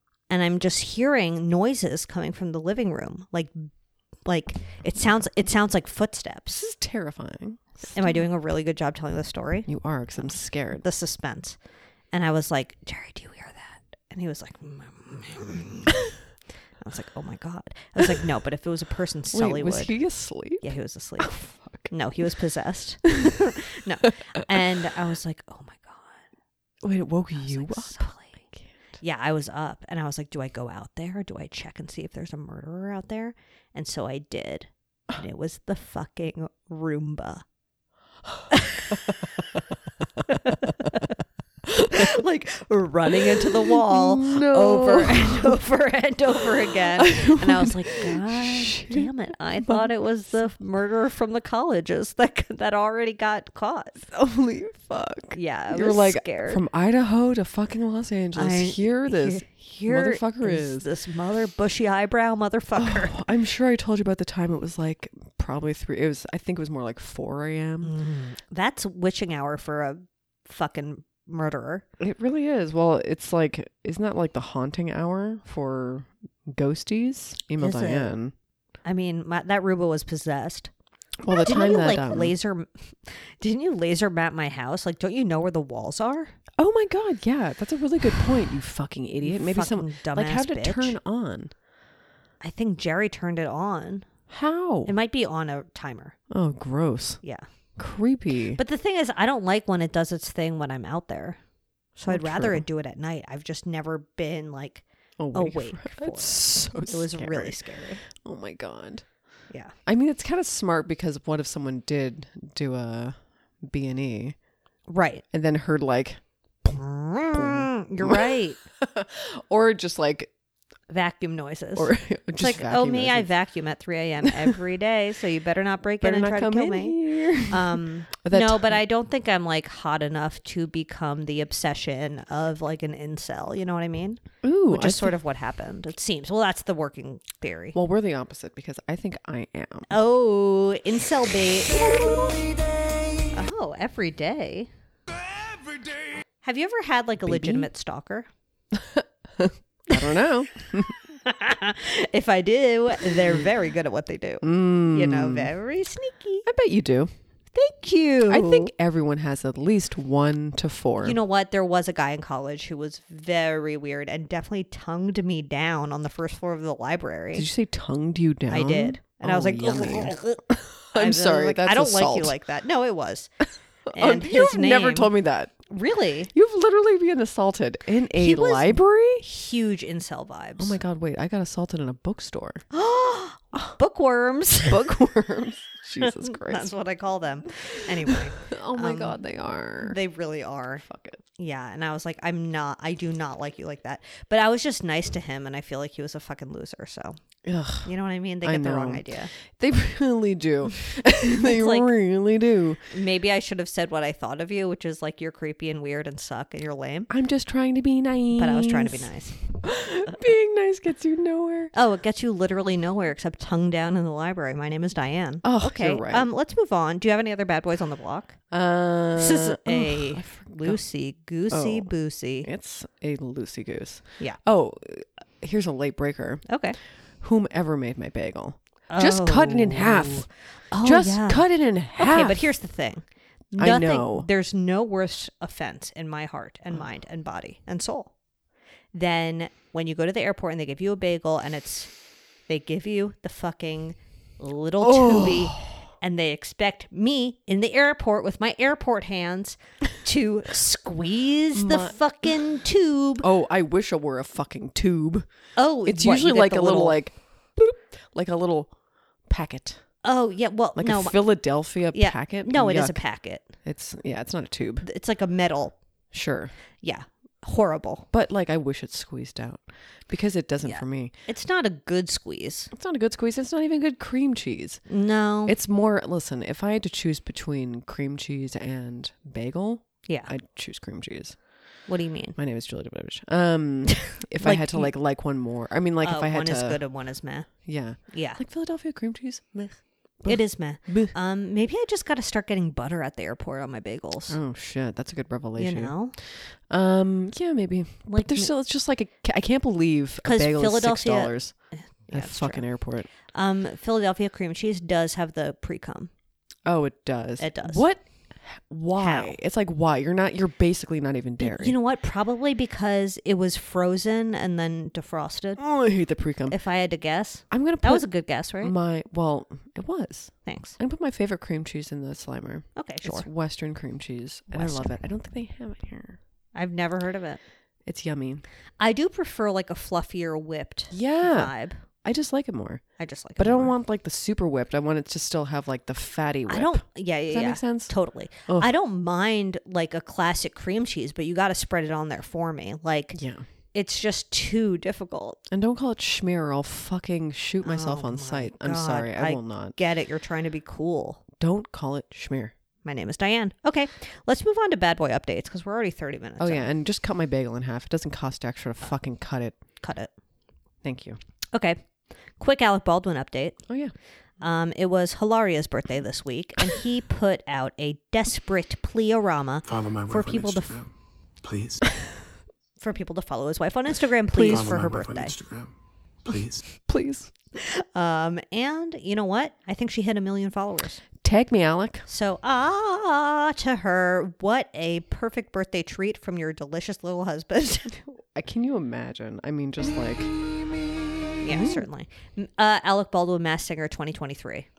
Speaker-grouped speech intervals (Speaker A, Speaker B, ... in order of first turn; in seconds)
Speaker A: 0.3-3.7, 4.2-6.7, 7.9-9.7, 10.2-11.6, 12.1-16.1, 16.8-19.9, 20.6-21.4, 21.9-26.2, 27.3-28.5, 29.0-37.4, 38.5-39.0, 40.3-41.1, 41.8-54.0, 55.3-56.6, 58.3-63.1, 67.8-71.8, 77.6-78.2, 78.8-80.7, 81.3-86.3, 89.2-91.0, 92.4-94.0, 94.8-96.2, 98.6-101.4, 102.0-108.0, 114.9-115.2, 116.7-118.6, 120.9-137.8, 139.9-142.3, 143.3-144.7, 146.4-148.3, 151.2-156.5, 157.5-158.7, 161.0-167.5, 168.5-170.4, 170.9-173.3, 173.9-175.1, 175.7-176.3, 178.2-180.8, 182.7-184.8, 186.0-189.2, 189.8-190.8, 191.4-197.2, 197.8-199.3, 201.4-201.9, 202.9-207.1, 208.3-209.4, 211.7-218.4, 219.1-222.5, 226.5-226.8, 228.9-231.4, 231.9-238.1, 238.9-241.9, 242.5-253.2, 255.6-257.0, 260.0-261.2, 261.9-263.5, 264.8-265.8, 266.8-268.1, 270.6-272.7, 274.9-275.6, 281.9-282.4, 284.4-284.9, 286.0-287.5, 288.1-288.4, 290.2-294.4, 295.6-296.1, 298.1-298.5, 300.2-302.6, 303.3-306.1, 307.4-307.8, 308.9-309.4, 311.4-315.6, 316.5-318.7, 320.4-320.8, 322.8-323.3, 324.5-324.9, 326.5-327.4, 328.8-331.8, 333.0-333.7, 336.5-343.2, 343.7-345.4, 347.6-351.2, 352.8-356.7, 359.8-360.1, 361.5-361.8, 362.4-363.6, 364.4-370.7, 372.8-375.3, 377.6-381.0, 382.1-388.0, 391.4-394.7
Speaker B: 6.5-8.2, 9.7-10.8, 19.3-20.6, 21.2-21.9, 26.8-28.7, 43.4-45.6, 47.0-49.1, 54.0-60.9, 62.7-67.9, 72.0-78.3, 81.2-82.3, 86.6-91.5, 94.3-94.9, 96.3-97.2, 97.8-98.6, 102.1-102.6, 105.2-109.0, 109.8-114.3, 115.3-116.2, 117.3-120.3, 121.8-123.3, 124.2-124.6, 126.0-128.8, 134.4-135.2, 137.7-139.9, 147.2-147.7, 148.7-150.9, 153.1-153.4, 154.4-155.5, 156.4-157.1, 158.3-161.2, 167.3-172.3, 173.9-175.6, 176.3-179.2, 180.6-182.6, 184.6-186.7, 188.1-190.0, 190.8-191.2, 197.4-202.9, 207.1-211.7, 215.4-216.3, 218.5-220.8, 221.5-221.9, 222.4-226.4, 227.2-230.3, 230.8-232.5, 233.6-234.3, 244.8-245.8, 251.5-252.0, 253.2-255.3, 255.8-258.7, 259.3-259.8, 260.8-263.0, 263.6-264.8, 266.1-266.5, 268.1-271.1, 272.7-274.8, 275.4-281.4, 282.4-286.8, 287.6-291.1, 294.3-301.5, 302.1-303.1, 306.6-311.8, 315.6-316.6, 317.5-318.0, 318.6-326.2, 327.9-328.4, 330.9-331.5, 332.0-332.8, 333.4-337.9, 343.1-343.4, 345.5-349.8, 351.4-352.5, 356.4-359.6, 360.8-361.2, 363.7-363.9, 374.3-374.7, 376.8-377.3, 381.2-382.0, 388.1-390.3, 391.4-391.8
Speaker C: 369.7-370.9, 371.4-371.8, 374.4-375.7, 376.2-376.6